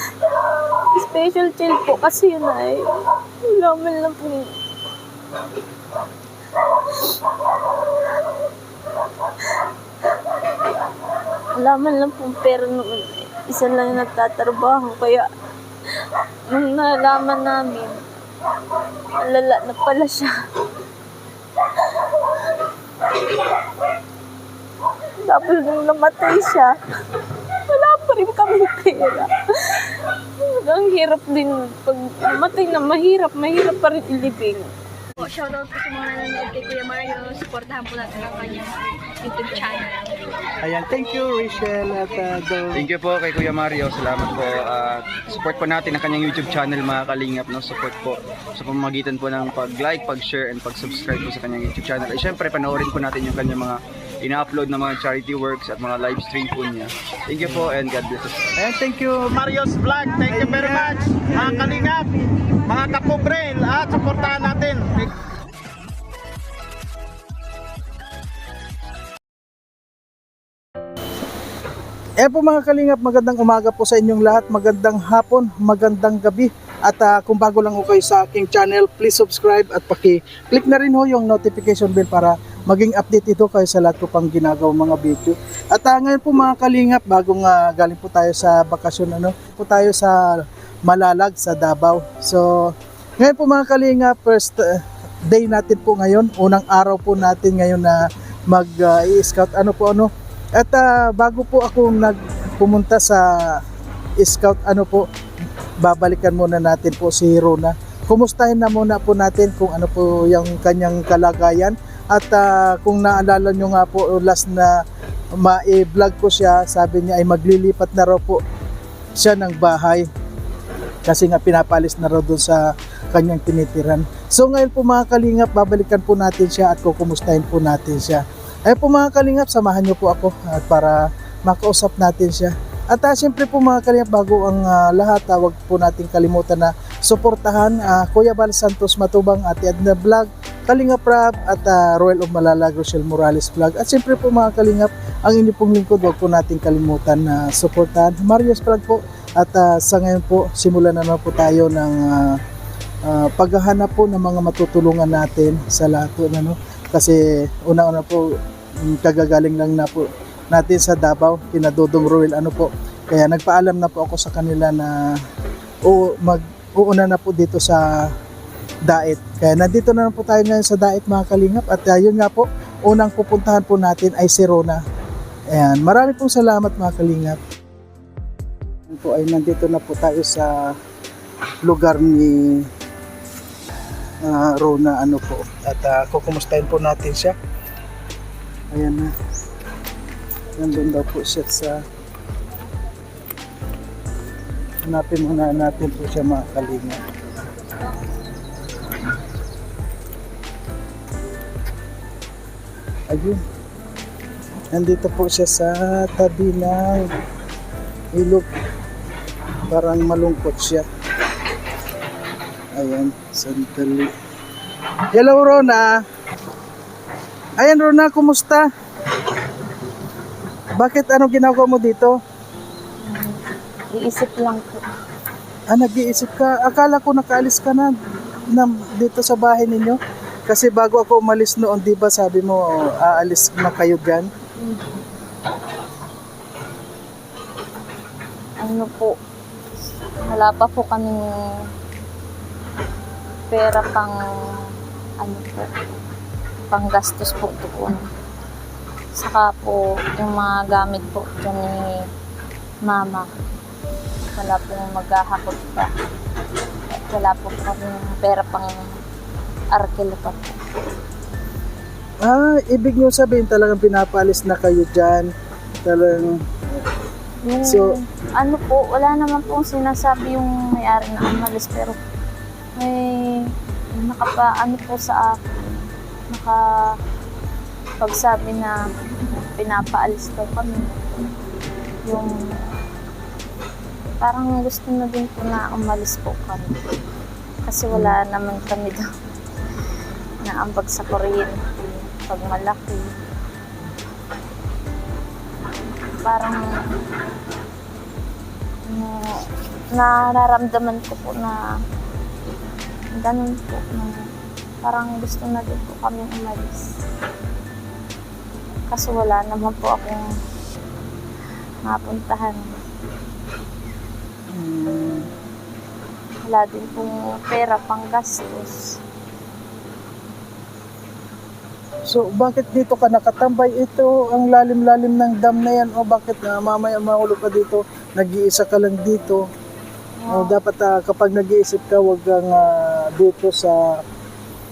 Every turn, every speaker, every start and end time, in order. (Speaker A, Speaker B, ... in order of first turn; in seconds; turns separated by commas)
Speaker A: 0.9-4.5, Speaker A: 11.6-15.3, Speaker A: 16.5-18.1, Speaker A: 19.2-20.4, Speaker A: 25.2-26.8, Speaker A: 27.7-34.7, Speaker B: 35.2-40.1, Speaker C: 40.6-42.8, Speaker D: 42.7-58.5, Speaker C: 58.6-59.2, Speaker E: 59.2-62.1, Speaker C: 60.3-61.6, Speaker E: 62.6-65.1, Speaker C: 72.2-103.6, Speaker C: 104.2-105.1, Speaker C: 105.8-114.8, Speaker C: 115.3-118.4, Speaker C: 119.2-120.1, Speaker C: 121.1-152.4, Speaker C: 153.1-165.2, Speaker C: 165.8-168.2, Speaker C: 168.8-174.8, Speaker C: 175.5-177.4, Speaker C: 178.9-180.8, Speaker C: 181.6-182.7, Speaker C: 184.2-187.4, Speaker C: 188.7-189.1, Speaker C: 190.6-191.8, Speaker C: 194.8-197.1, Speaker C: 203.1-203.4, Speaker C: 204.7-207.1, Speaker C: 208.1-208.5, Speaker C: 209.7-210.9, Speaker C: 212.8-214.1, Speaker C: 215.1-216.0, Speaker C: 217.6-218.7, Speaker C: 220.8-222.2, Speaker A: 223.0-223.4, Speaker A: 223.9-224.8, Speaker C: 225.7-227.9, Speaker C: 228.5-234.3, Speaker A: 238.6-239.2, Speaker A: 240.2-241.2, Speaker A: 243.5-244.6, Speaker A: 245.2-245.7, Speaker A: 246.7-248.1, Speaker A: 249.2-251.8, Speaker A: 252.8-253.3, Speaker A: 254.3-255.9, Speaker A: 256.9-258.9, Speaker A: 259.7-260.6, Speaker C: 262.2-265.3, Speaker C: 265.9-266.9, Speaker A: 267.4-272.0, Speaker C: 267.6-267.9, Speaker A: 272.8-276.9, Speaker A: 278.0-278.8, Speaker A: 279.4-281.3, Speaker A: 282.1-282.4, Speaker A: 284.2-286.8, Speaker A: 287.7-289.1, Speaker A: 290.4-293.2, Speaker A: 296.2-296.8, Speaker A: 298.9-301.6, Speaker A: 303.2-304.1, Speaker A: 304.8-306.9, Speaker A: 308.9-310.3, Speaker A: 311.9-312.8, Speaker C: 314.5-315.3, Speaker A: 316.4-318.9, Speaker C: 322.1-329.4, Speaker A: 330.2-330.6, Speaker C: 330.3-334.0